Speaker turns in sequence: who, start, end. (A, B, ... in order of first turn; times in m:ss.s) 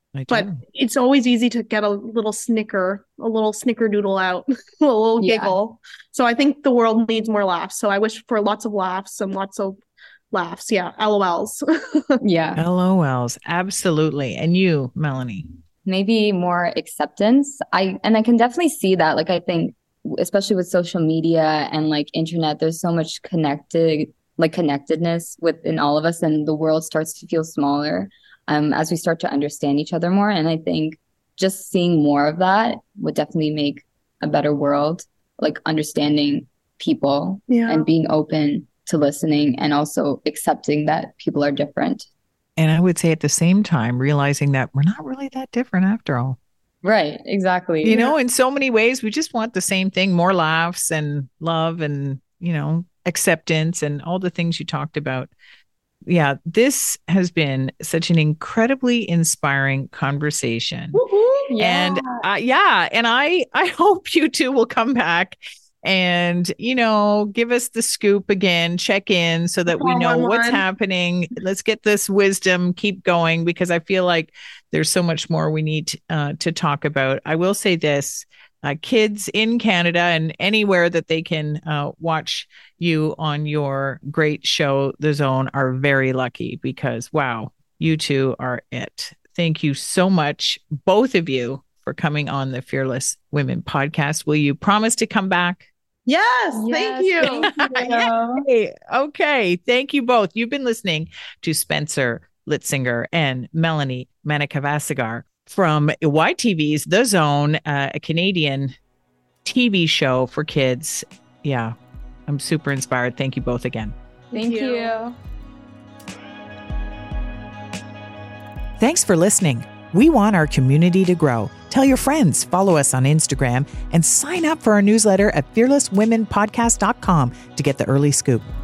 0:00.1-0:00.6 A
0:00.3-0:09.8 B
0:05.2-0:05.5 C
0:10.3-0:12.2 B
0:12.2-0:12.6 C
0:12.6-0:15.5 A
0:15.8-0:42.1 C
0:37.5-0:37.9 B
0:42.6-0:46.4 A
0:46.8-0:48.1 C
0:47.8-0:55.3 A
0:56.1-1:01.0 A
1:00.9-1:01.6 B
1:01.5-1:02.2 C
1:01.6-1:35.7 A
1:09.7-1:10.6 B
1:36.0-1:38.1 B
1:36.5-1:38.4 C
1:37.2-1:48.7 A
1:49.4-1:51.7 A
1:52.3-1:53.9 A
1:54.3-1:55.2 C
1:54.3-1:55.0 B
1:58.8-2:08.4 A